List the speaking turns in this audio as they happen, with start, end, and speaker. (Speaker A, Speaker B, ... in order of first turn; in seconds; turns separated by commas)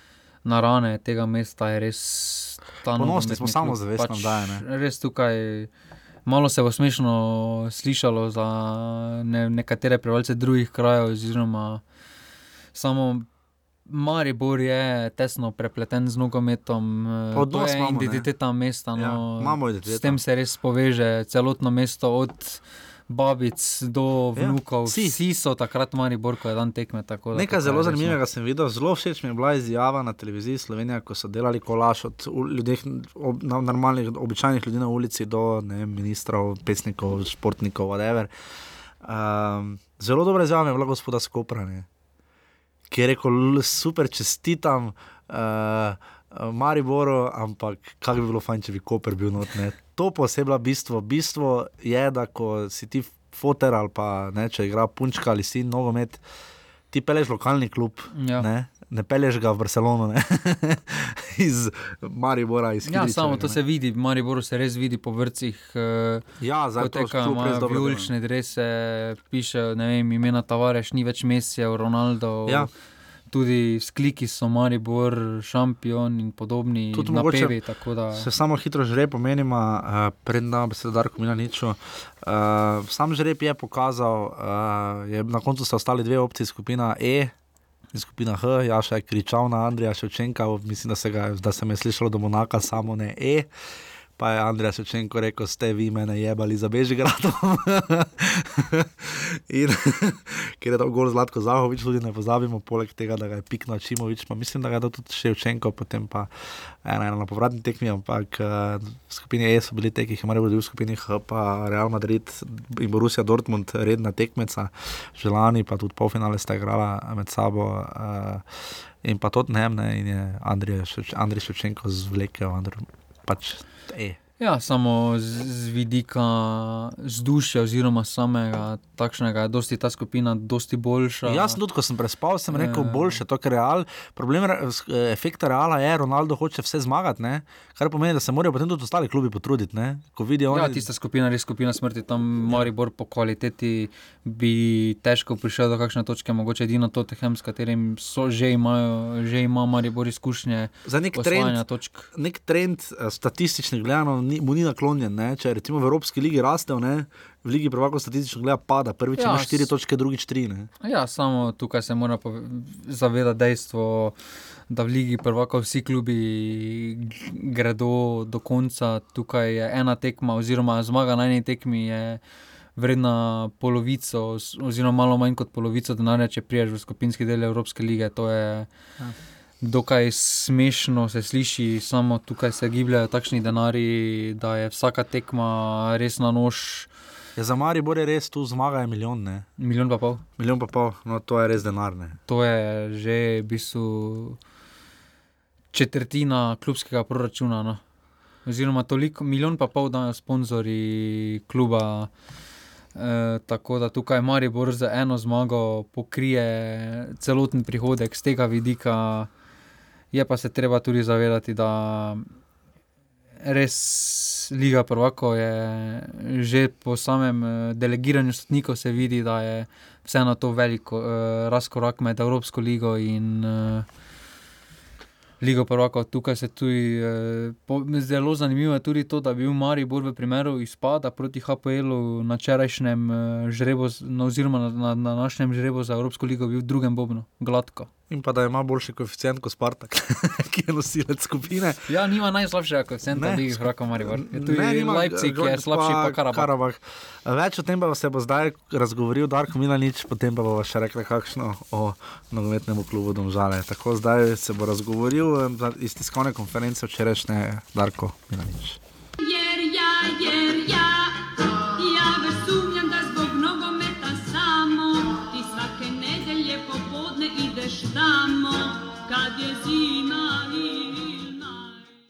Speaker A: 0.5-5.7, Speaker B: 3.0-4.6, Speaker A: 6.3-11.8, Speaker A: 12.8-13.3, Speaker A: 13.9-28.2, Speaker B: 17.3-18.3, Speaker B: 18.9-20.2, Speaker B: 24.4-25.2, Speaker B: 27.3-38.3, Speaker B: 39.0-41.9, Speaker B: 42.9-56.2, Speaker B: 56.9-63.6, Speaker A: 58.1-58.5, Speaker A: 62.9-66.2, Speaker B: 66.4-68.1, Speaker A: 66.8-72.7, Speaker B: 72.5-72.7, Speaker A: 73.3-78.3, Speaker B: 76.9-77.6, Speaker B: 78.1-87.3, Speaker B: 87.9-93.5, Speaker B: 94.2-118.5, Speaker B: 119.0-124.2, Speaker A: 124.4-131.6, Speaker B: 131.2-140.9, Speaker A: 132.5-133.2, Speaker A: 140.5-152.1, Speaker B: 150.8-151.6, Speaker B: 152.1-160.7, Speaker A: 159.2-159.7, Speaker A: 160.8-164.2, Speaker A: 164.7-172.2, Speaker A: 172.8-178.7, Speaker A: 179.6-186.9, Speaker B: 187.4-189.5, Speaker A: 189.6-190.2, Speaker B: 190.4-192.2, Speaker A: 192.3-194.4, Speaker A: 195.7-197.8, Speaker A: 198.5-202.1, Speaker A: 202.9-209.3, Speaker A: 210.1-212.3, Speaker A: 213.4-223.9, Speaker A: 225.4-237.9, Speaker B: 238.1-241.9, Speaker A: 241.9-246.5, Speaker B: 243.2-258.8, Speaker C: 259.2-271.8